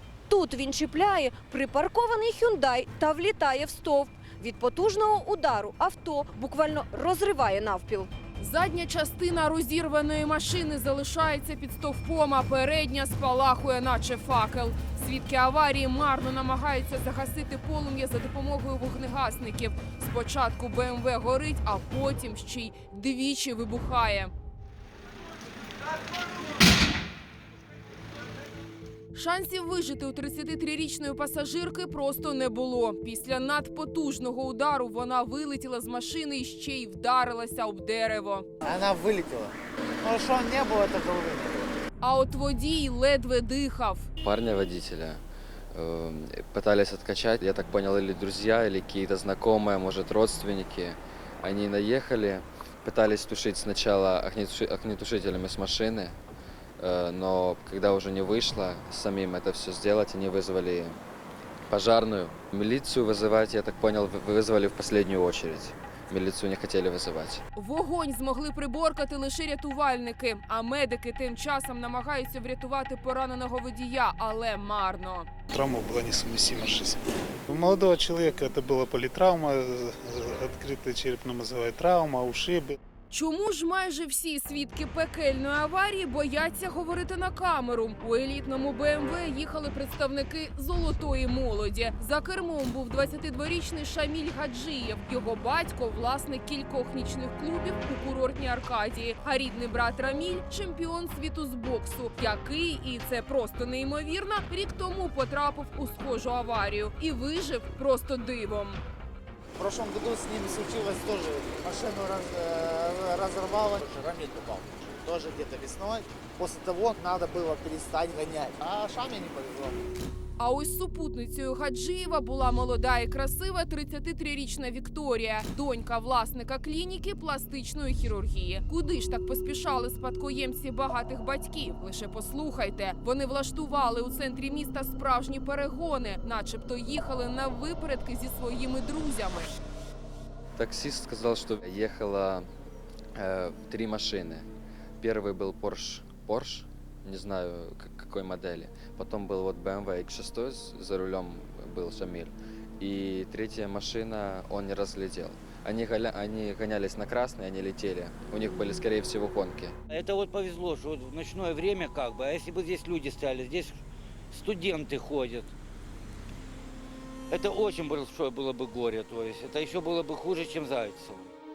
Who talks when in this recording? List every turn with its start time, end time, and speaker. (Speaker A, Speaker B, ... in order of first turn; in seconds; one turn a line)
Speaker A: 0.3-8.1
Speaker B: 8.4-24.3
Speaker B: 29.1-38.5
Speaker C: 38.6-41.8
Speaker B: 42.0-44.1
Speaker D: 44.2-45.2
Speaker D: 45.7-56.2
Speaker D: 56.8-61.0
Speaker D: 61.7-67.4
Speaker B: 67.6-75.3
Speaker E: 75.5-82.8
Speaker B: 83.1-108.8
Speaker C: 109.6-119.9
Speaker B: 120.4-139.6
Speaker D: 140.6-142.5
Speaker D: 143.1-144.5
Speaker D: 145.0-159.7
Speaker F: 159.9-165.5
Speaker F: 167.3-171.3